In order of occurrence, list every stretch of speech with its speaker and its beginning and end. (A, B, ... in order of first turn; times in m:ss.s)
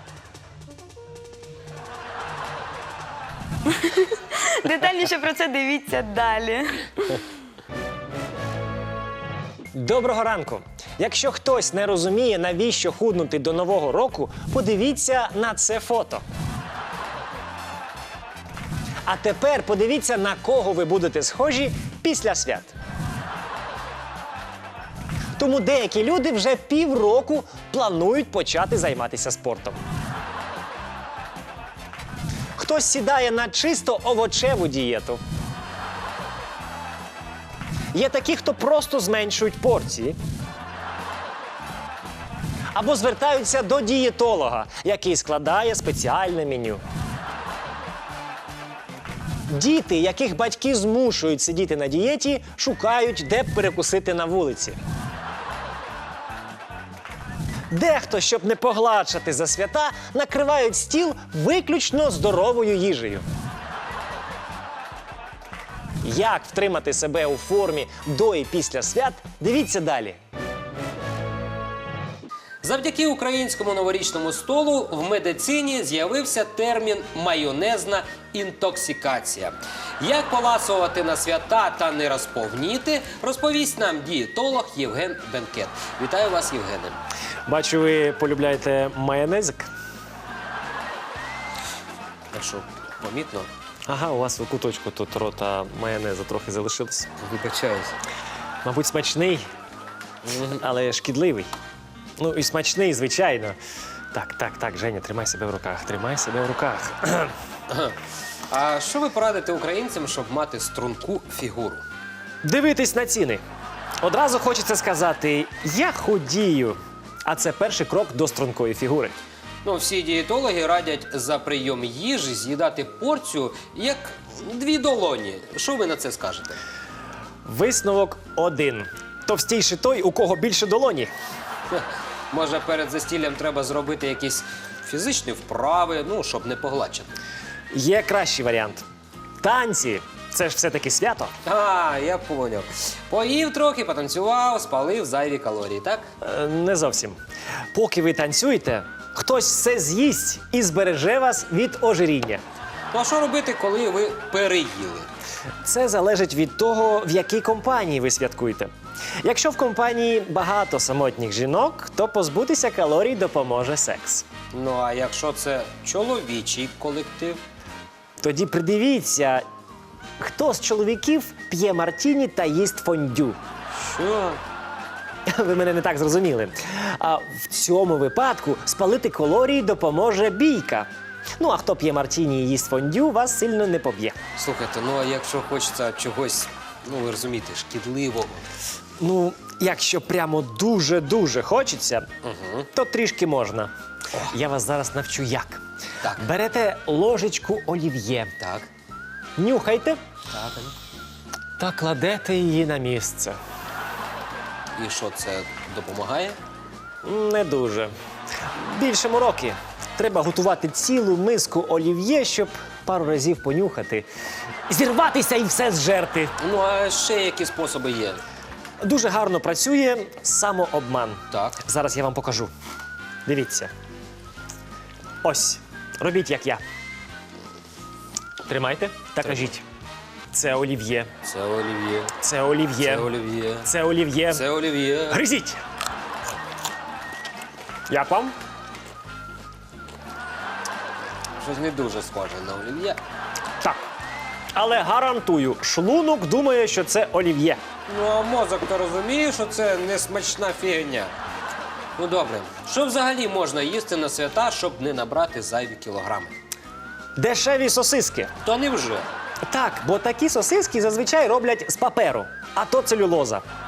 0:03.7-0:07.2 A
0:09.7-0:16.2 B
0:19.1-0:22.7 B
0:25.4-0:29.8 B
0:32.6-0:35.2 B
0:37.9-0:40.2 B
0:42.7-0:46.8 B
0:49.5-0:54.8 B
0:57.7-1:03.2 B
1:06.0-1:10.2 B
1:12.6-1:27.0 C
1:27.5-1:29.7 B
1:32.3-1:33.5 C
1:33.9-1:37.1 B
1:37.2-1:38.0 C
1:38.6-1:39.5 B
1:40.3-1:41.5 B
1:42.2-1:43.6 B
1:44.1-1:47.3 B
1:47.7-1:48.0 C
1:48.5-1:51.8 C
1:52.4-1:53.4 B
1:54.0-1:59.1 B
1:59.6-2:06.6 C
2:07.4-2:11.1 B
2:11.7-2:17.1 C
2:17.7-2:18.8 B
2:19.4-2:21.3 B
2:21.4-2:26.1 C
2:26.2-2:27.2 B
2:27.7-2:32.4 B
2:32.9-2:35.1 C
2:35.6-2:38.7 B
2:39.2-2:44.2 B
2:44.5-2:47.4 C
2:48.2-2:49.4 B
2:50.2-2:53.4 B
2:53.8-2:54.4 C
2:55.3-3:00.9 B
3:01.4-3:04.2 B
3:04.4-3:08.4 C
3:09.0-3:12.1 B
3:12.2-3:12.7 C
3:12.7-3:13.7 B
3:14.3-3:15.6 B
3:16.2-3:18.3 B
3:18.4-3:18.7 C
3:19.4-3:20.0 B
3:20.3-3:20.7 C
3:21.6-3:23.4 B
3:24.8-3:26.4 C
3:27.0-3:27.9 B
3:28.5-3:34.1 B
3:34.7-3:36.4 B
3:36.4-3:38.2 C
3:38.8-3:42.5 B
3:41.3-3:41.6 C
3:43.3-3:43.7 B
3:45.2-3:46.6 B
3:48.5-3:49.6 B
3:50.3-3:51.1 B
3:51.2-3:52.1 C
3:52.2-3:53.1 B
3:52.8-3:53.7 C
3:53.6-3:54.4 B
3:54.3-3:55.2 C
3:55.1-3:55.6 B
3:57.9-3:58.3 B
4:01.4-4:03.0 C
4:03.6-4:03.9 B
4:04.6-4:07.6 B
4:07.9-4:11.1 C
4:12.0-4:16.3 C
4:17.2-4:18.3 B
4:18.4-4:19.1 C
4:19.5-4:23.4 B